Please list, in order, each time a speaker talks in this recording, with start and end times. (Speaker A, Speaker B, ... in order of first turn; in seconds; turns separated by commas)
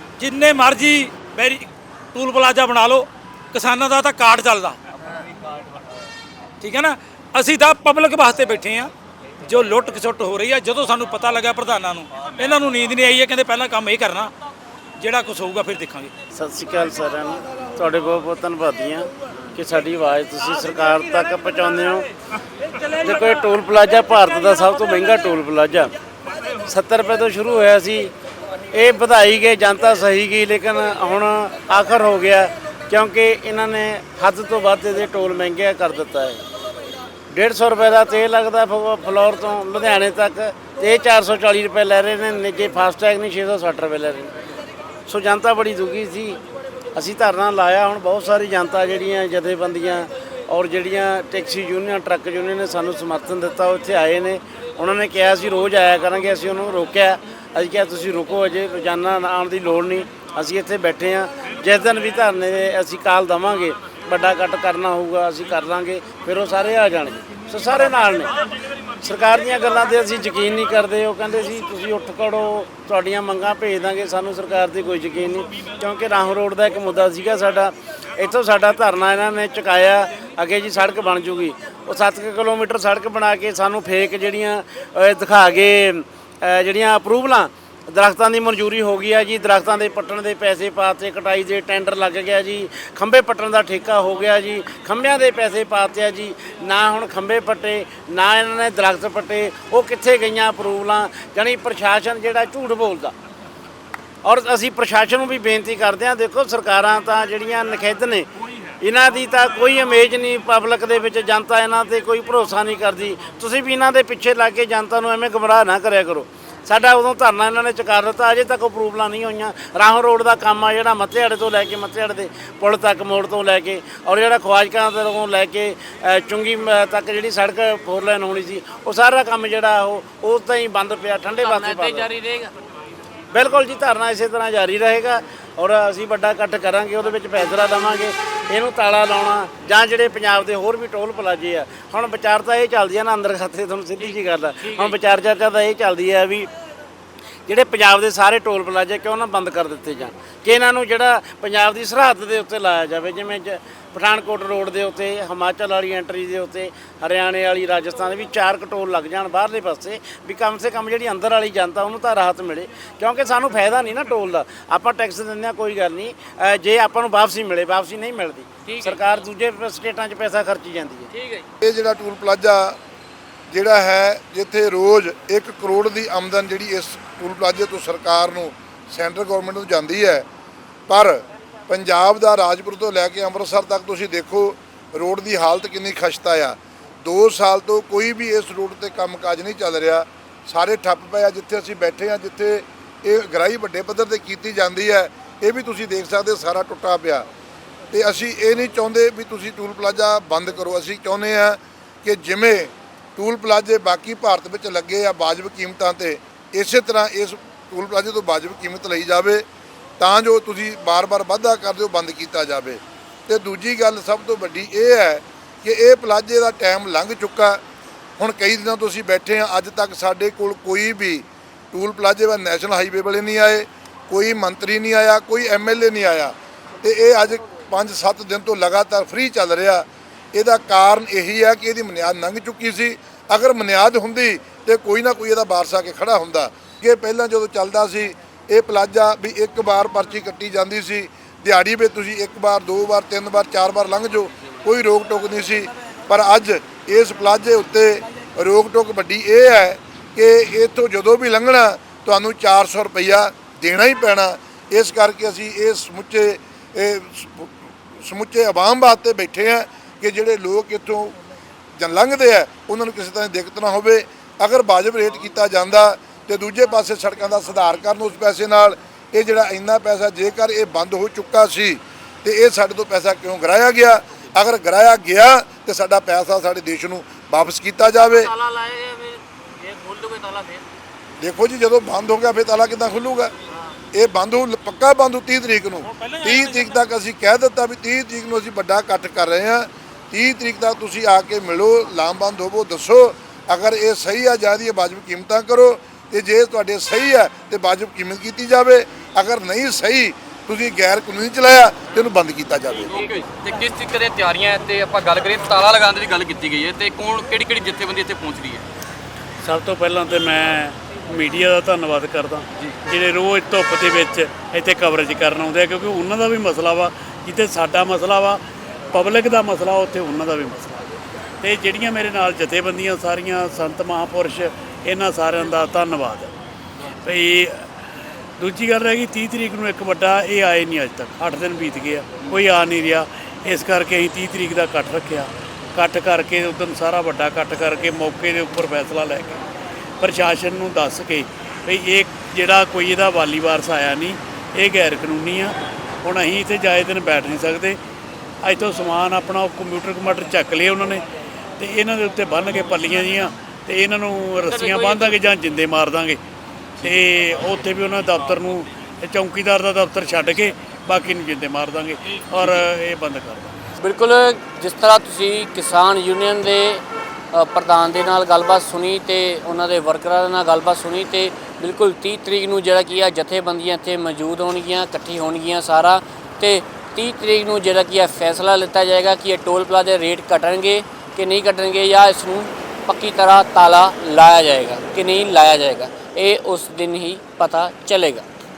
Speaker A: 0.2-4.8, Speaker A: 6.6-8.9, Speaker A: 9.5-14.3, Speaker A: 15.0-16.1, Speaker B: 16.3-22.1, Speaker A: 22.6-23.4, Speaker B: 23.0-25.9, Speaker B: 26.7-28.1, Speaker B: 28.7-36.4, Speaker B: 37.3-44.5, Speaker B: 45.1-46.4, Speaker B: 47.0-68.3, Speaker B: 69.0-103.2, Speaker B: 104.2-108.3, Speaker B: 108.8-132.1, Speaker C: 131.3-132.5, Speaker B: 133.3-146.5, Speaker C: 144.1-145.0, Speaker B: 147.5-171.1, Speaker C: 168.7-169.0, Speaker C: 171.1-171.5, Speaker D: 171.6-172.8, Speaker D: 173.5-180.3, Speaker D: 180.9-197.3, Speaker D: 197.9-209.5, Speaker D: 210.0-217.6, Speaker D: 218.2-261.2, Speaker D: 261.8-278.3, Speaker C: 277.9-280.6, Speaker D: 281.2-283.3, Speaker D: 283.9-302.9, Speaker A: 285.8-286.9, Speaker E: 302.9-308.6, Speaker F: 309.4-318.4, Speaker F: 318.9-320.8, Speaker F: 321.4-326.3, Speaker F: 327.0-327.8, Speaker F: 328.4-339.4, Speaker F: 340.0-347.8, Speaker F: 348.4-351.1, Speaker F: 351.6-356.2, Speaker C: 354.5-355.2, Speaker F: 356.8-363.5, Speaker C: 363.8-388.3